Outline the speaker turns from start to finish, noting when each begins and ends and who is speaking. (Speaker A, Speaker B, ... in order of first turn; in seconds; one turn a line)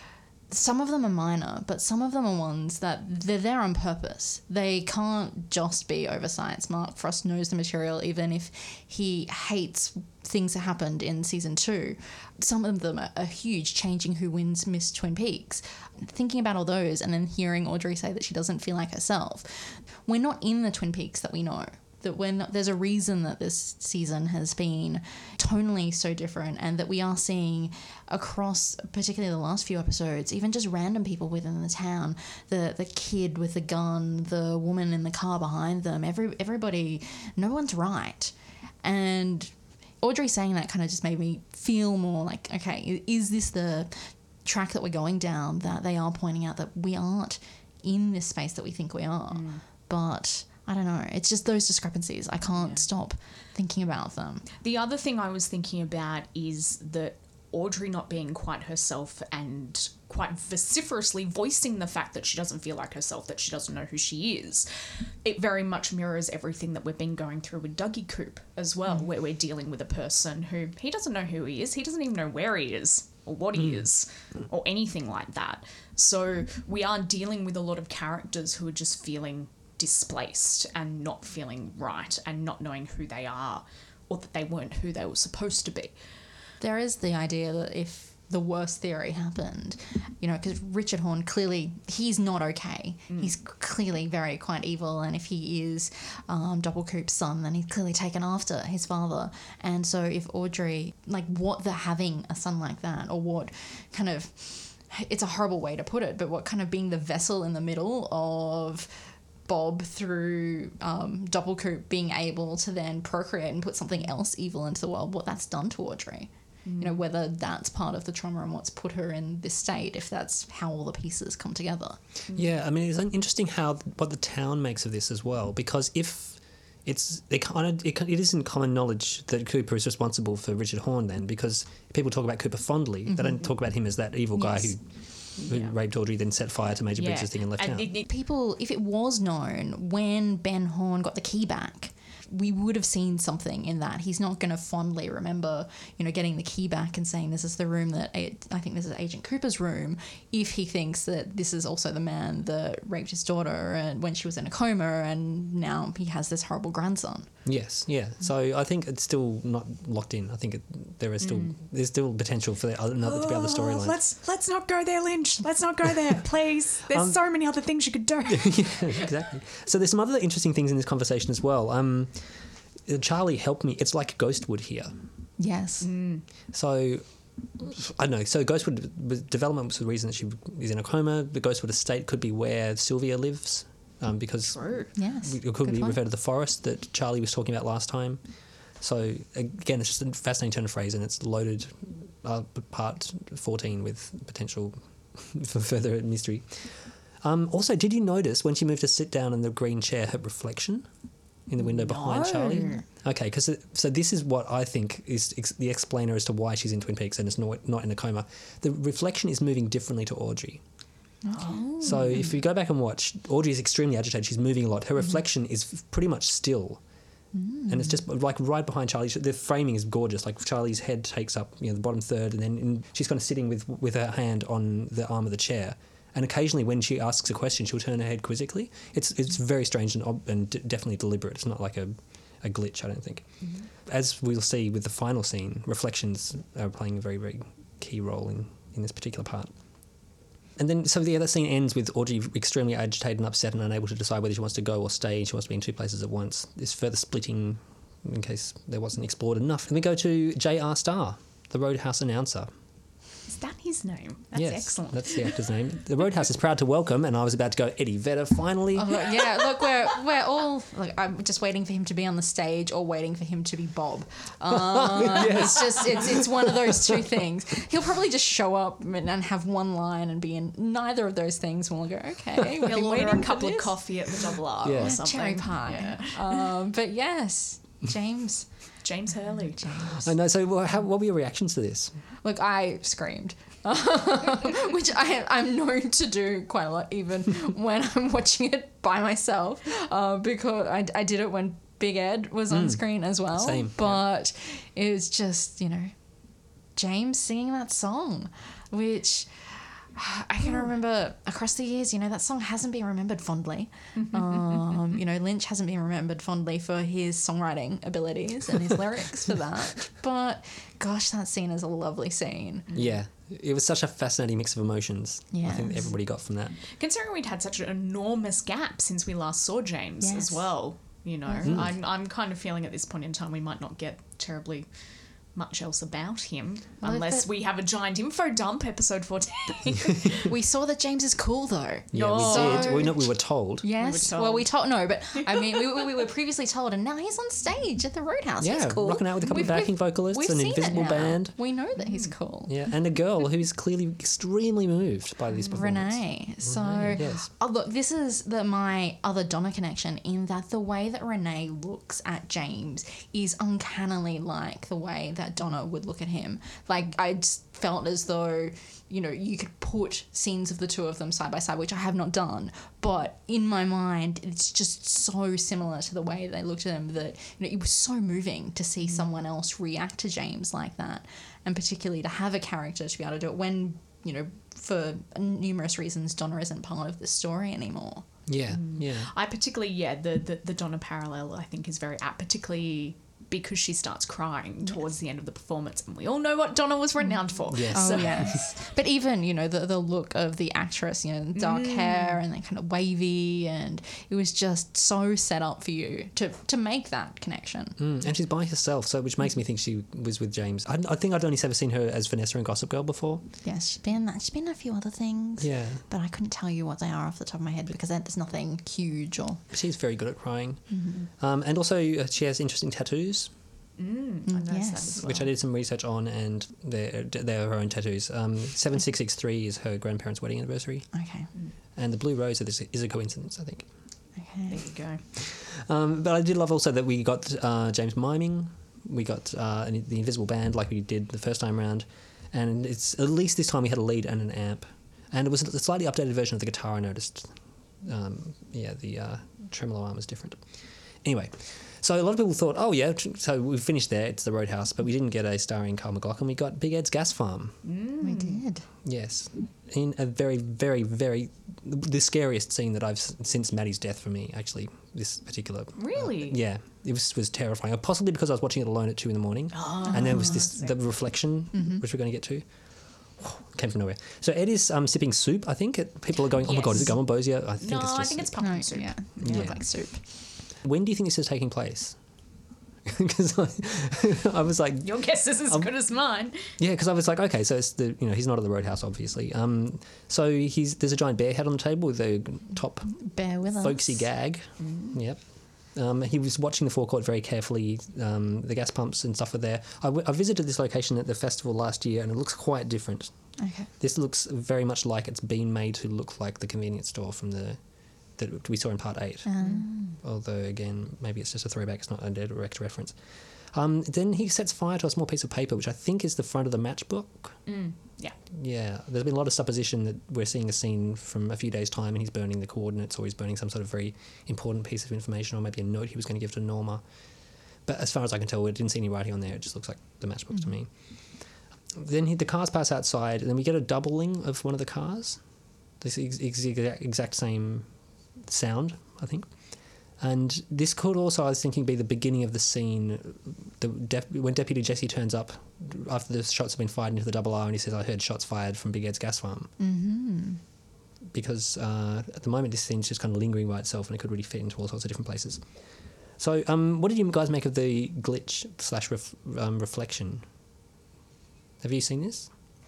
Speaker A: 0.5-54.5
Speaker B: 49.3-49.6
Speaker B: 52.5-52.9
Speaker B: 54.6-86.0
Speaker A: 86.6-122.0
Speaker B: 116.7-117.0
Speaker C: 122.3-137.9
Speaker A: 133.1-133.5
Speaker A: 134.3-134.8
Speaker B: 135.4-135.8
Speaker B: 136.9-138.1
Speaker A: 138.1-157.3
Speaker C: 157.4-164.0
Speaker B: 161.2-161.5
Speaker B: 163.0-169.2
Speaker C: 166.9-167.2
Speaker C: 168.3-175.0
Speaker A: 175.4-175.9
Speaker B: 175.8-176.2
Speaker C: 176.5-188.2
Speaker B: 184.4-184.9
Speaker A: 184.9-186.0
Speaker C: 188.8-200.9
Speaker C: 201.5-210.6
Speaker B: 201.7-202.8
Speaker A: 211.2-212.4
Speaker B: 211.3-212.1
Speaker C: 211.8-216.8
Speaker A: 217.3-218.0
Speaker C: 217.7-239.6
Speaker C: 240.6-252.5
Speaker B: 253.3-255.5
Speaker C: 254.3-259.0
Speaker A: 258.8-273.8
Speaker C: 264.5-266.8
Speaker B: 272.6-276.5
Speaker C: 274.6-275.0
Speaker A: 274.8-278.6
Speaker B: 278.8-279.7
Speaker A: 279.6-280.1
Speaker C: 279.8-282.0
Speaker A: 282.2-295.9
Speaker C: 292.5-294.0
Speaker A: 296.8-312.7
Speaker B: 304.0-304.7
Speaker B: 312.7-312.9
Speaker C: 312.7-316.6
Speaker A: 315.3-315.9
Speaker B: 316.6-330.3
Speaker A: 320.0-320.6
Speaker A: 321.2-321.7
Speaker C: 321.4-321.8
Speaker A: 326.8-327.3
Speaker A: 330.2-342.6
Speaker C: 331.9-333.7
Speaker B: 331.9-332.9
Speaker B: 333.8-335.8
Speaker C: 338.4-341.4
Speaker B: 341.8-342.1
Speaker C: 342.5-347.3
Speaker B: 345.3-345.6
Speaker A: 345.5-378.1
Speaker C: 378.3-379.1
Speaker B: 378.5-388.5
Speaker C: 387.5-388.4
Speaker A: 387.7-398.1
Speaker B: 391.4-392.2
Speaker C: 397.8-403.2
Speaker A: 403.4-409.4
Speaker C: 405.4-405.8
Speaker C: 409.5-413.3
Speaker A: 410.7-411.1
Speaker B: 413.8-415.3
Speaker A: 414.3-415.0
Speaker C: 415.0-421.0
Speaker A: 420.9-421.3
Speaker C: 421.8-423.7
Speaker A: 424.2-424.7
Speaker B: 424.5-425.0
Speaker C: 425.1-447.6
Speaker B: 447.6-448.4
Speaker A: 448.0-448.7
Speaker C: 448.8-462.5
Speaker B: 455.8-456.4
Speaker B: 459.5-460.8
Speaker A: 459.9-460.5
Speaker A: 461.5-461.8
Speaker C: 463.0-468.3
Speaker B: 466.4-469.6
Speaker A: 468.4-470.1
Speaker C: 469.2-472.0
Speaker C: 472.9-475.7
Speaker B: 474.8-476.6
Speaker C: 476.6-497.6
Speaker A: 482.9-484.1
Speaker B: 484.6-485.0
Speaker A: 493.4-493.7
Speaker C: 498.1-507.4
Speaker A: 499.2-500.0
Speaker B: 499.4-499.7
Speaker B: 507.5-508.2
Speaker C: 508.3-516.8
Speaker C: 517.7-520.7
Speaker C: 521.8-525.2
Speaker C: 525.8-529.3
Speaker C: 530.0-539.5
Speaker A: 539.6-540.4
Speaker C: 541.1-545.4
Speaker C: 546.2-550.2
Speaker C: 551.6-552.3